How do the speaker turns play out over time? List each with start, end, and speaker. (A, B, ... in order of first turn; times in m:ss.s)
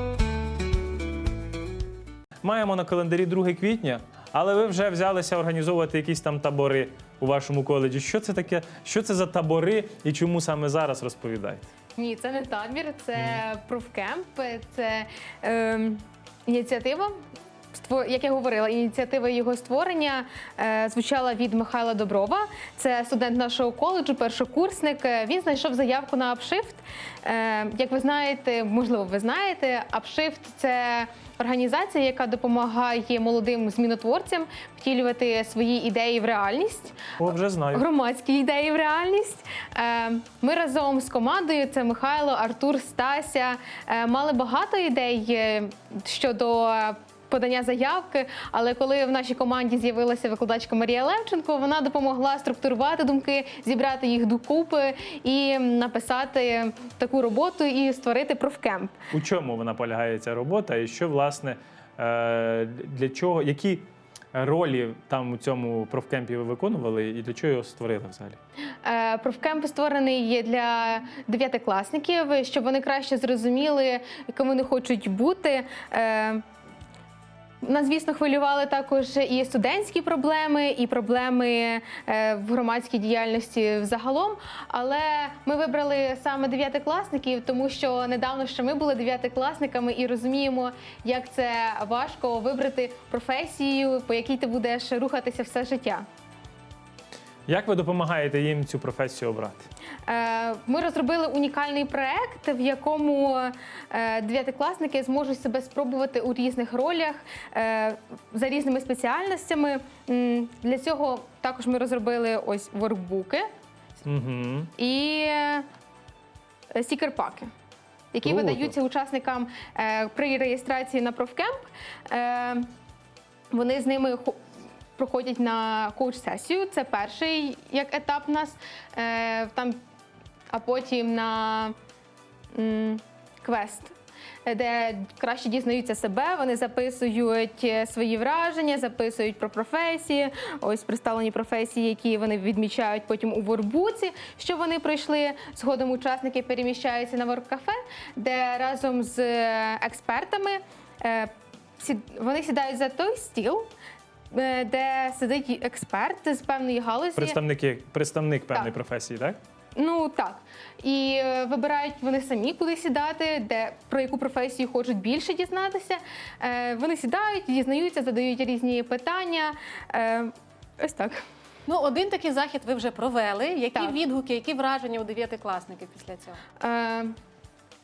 0:02.4-0:11.7 A
0:12.0-0:17.2 B
0:17.7-0:37.0 B
0:37.2-0:37.9 A
0:37.7-0:59.0 B
0:59.1-1:08.4 A
1:08.8-1:16.4 B
1:17.6-1:36.0 B
1:37.5-1:39.7 A
1:40.1-1:53.5 B
1:54.0-1:54.7 A
1:54.8-1:55.6 B
1:56.8-1:57.5 B
1:58.1-2:02.7 B
1:58.2-1:58.7 A
2:03.5-2:04.4 B
2:05.0-2:09.8 B
2:10.5-2:11.7 B
2:12.5-2:33.7 B
2:34.3-2:37.4 B
2:37.2-2:39.4 A
2:39.8-2:51.2 B
2:51.7-2:56.4 C
2:56.6-2:57.2 B